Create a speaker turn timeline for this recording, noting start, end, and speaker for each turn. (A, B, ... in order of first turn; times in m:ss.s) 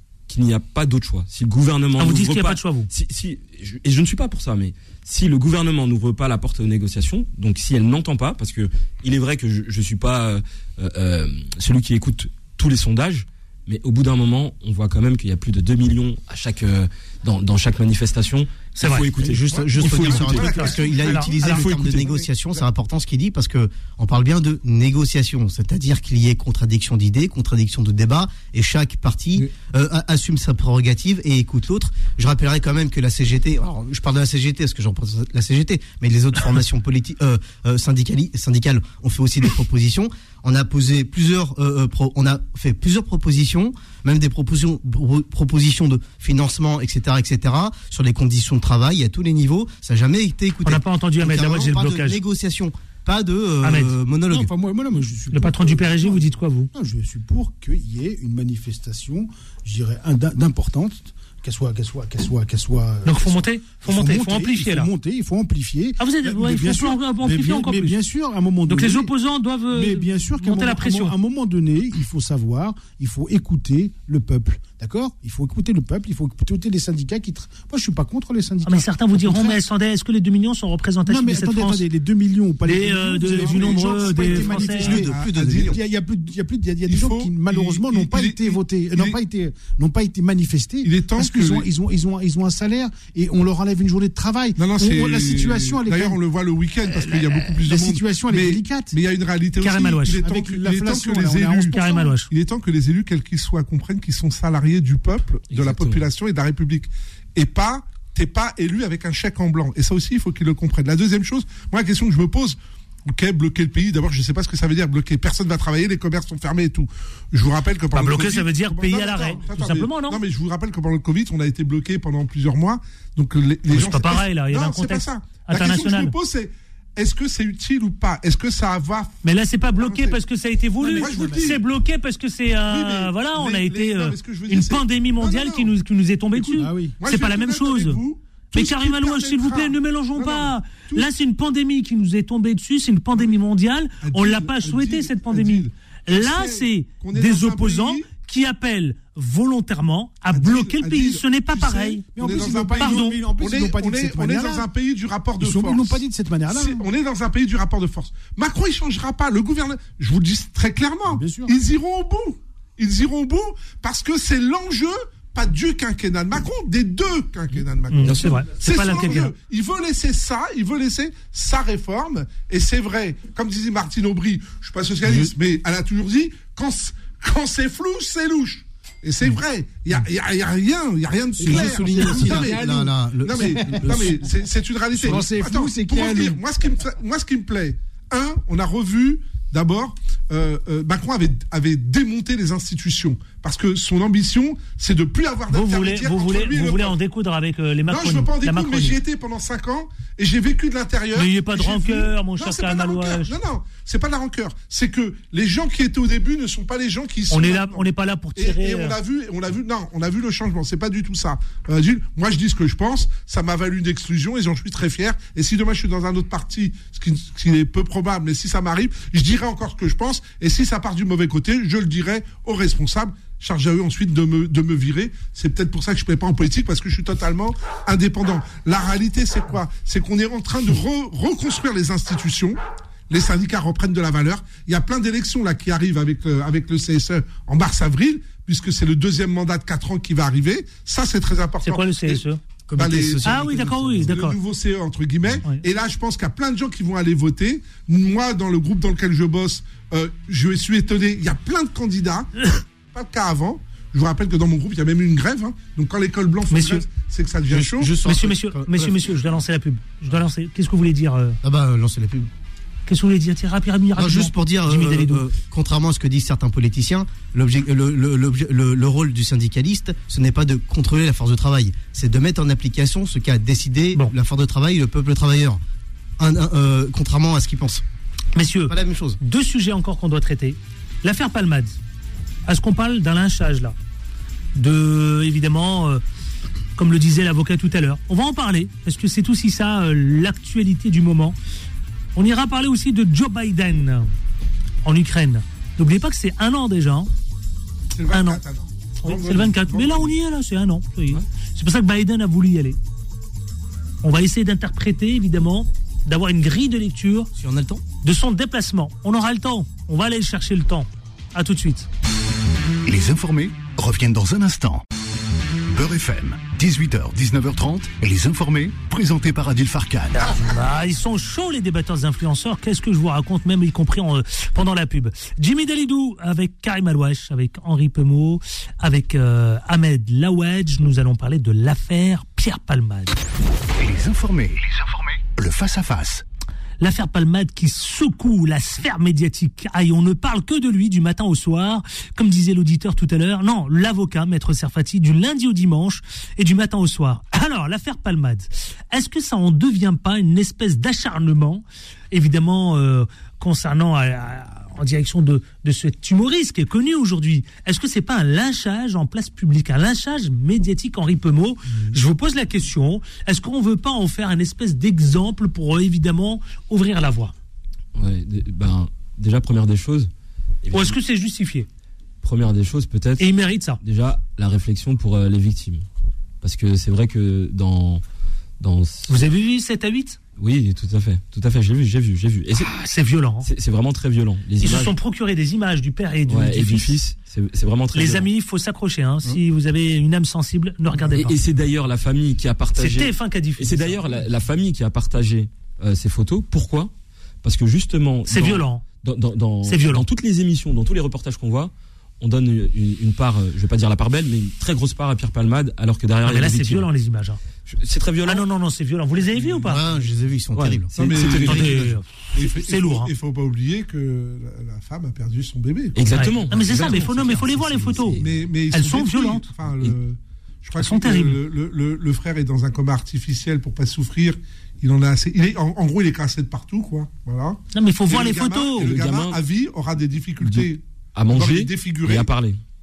0:00.3-0:20.6 A
0:02.0-0:02.9 B
0:18.8-0:19.1 B
0:19.2-0:54.5 C
0:19.2-0:22.7 D
0:19.8-0:21.6 B
0:21.6-0:22.1 A
0:50.6-0:52.2 B
0:53.6-0:53.9 B
0:54.3-1:09.1 E
0:55.3-0:56.7 B
1:03.0-1:04.9 B
1:06.0-1:08.0 B
1:08.7-1:11.1 B
1:09.7-1:19.6 E
1:18.6-1:21.8 B
1:21.0-1:25.1 E
1:22.6-1:25.0 B
1:23.4-1:25.8 D
1:24.7-1:25.8 C
1:25.7-1:36.2 E
1:26.9-1:29.2 D
1:30.8-1:31.7 D
1:34.6-2:10.2 D
1:36.8-1:38.9 E
1:39.6-1:40.2 B
1:40.2-1:42.2 E
1:41.7-1:42.3 B
1:45.5-1:46.0 A
1:57.9-2:00.2 B
2:03.7-2:06.1 B
2:09.2-2:18.0 B
2:10.8-2:11.6 D
2:10.9-2:11.3 E
2:12.6-2:15.8 D
2:16.3-2:21.1 D
2:16.6-2:17.0 E
2:18.5-2:32.0 B
2:24.0-2:28.1 D
2:30.3-3:17.0 D
2:32.0-2:34.6 E
2:32.8-2:33.2 B
2:35.4-2:36.8 E
2:41.1-2:41.5 E
2:47.9-2:49.3 B
3:01.4-3:04.2 C
3:03.6-3:03.9 E
3:04.9-3:06.4 E
3:15.5-3:18.9 B
3:17.9-3:52.6 D
3:21.1-3:23.3 B
3:27.3-3:29.0 B
3:53.1-4:02.2 D
4:01.6-4:02.4 B
4:02.7-4:04.1 C
4:02.7-4:12.3 D
4:03.2-4:04.4 B
4:12.9-4:18.0 D
4:16.5-4:16.8 B
4:17.5-4:19.0 C
4:18.0-4:21.4 B
4:21.4-4:22.3 C
4:22.9-4:25.2 B
4:24.0-4:35.6 C
4:36.2-4:37.8 C
4:38.4-4:41.8 B
4:38.6-4:39.2 C
4:42.4-4:43.7 B
4:44.6-4:46.0 B
4:46.8-4:51.4 B
4:52.2-4:54.1 B
4:54.8-4:57.1 B
4:57.9-5:00.2 D
4:58.1-4:58.4 B
4:59.0-5:02.8 B
5:04.0-5:07.3 B
5:07.4-5:07.8 C
5:08.0-5:11.9 B
5:12.8-5:14.8 F
5:15.7-5:20.3 F
5:20.2-5:33.2 B
5:33.8-5:36.2 F
5:36.8-6:07.3 B
6:07.9-6:10.1 A
6:10.6-6:11.0 A
6:10.7-6:11.7 B
6:12.2-6:15.8 A
6:13.2-6:13.8 B
6:16.4-6:18.0 A
6:18.6-6:19.3 A
6:19.1-6:20.2 B
6:20.4-6:22.8 A
6:22.8-6:23.5 B
6:23.4-6:24.9 A
6:24.6-6:27.0 B
6:26.3-6:28.3 A
6:27.9-6:31.3 B
6:31.0-6:36.9 A
6:32.7-6:34.2 B
6:37.4-6:46.9 A
6:38.3-6:38.8 B
6:39.6-6:40.0 B
6:46.2-6:47.4 B
6:47.6-6:48.5 A
6:48.2-6:49.8 B
6:49.6-6:51.9 C
6:50.5-6:51.9 A
6:50.9-6:57.4 D
6:51.2-6:53.1 B
6:56.0-6:58.3 A
6:56.1-6:59.5 B
6:58.2-7:12.3 D
7:00.8-7:01.4 B
7:07.7-7:08.9 B
7:08.8-7:09.4 A
7:10.4-7:12.6 A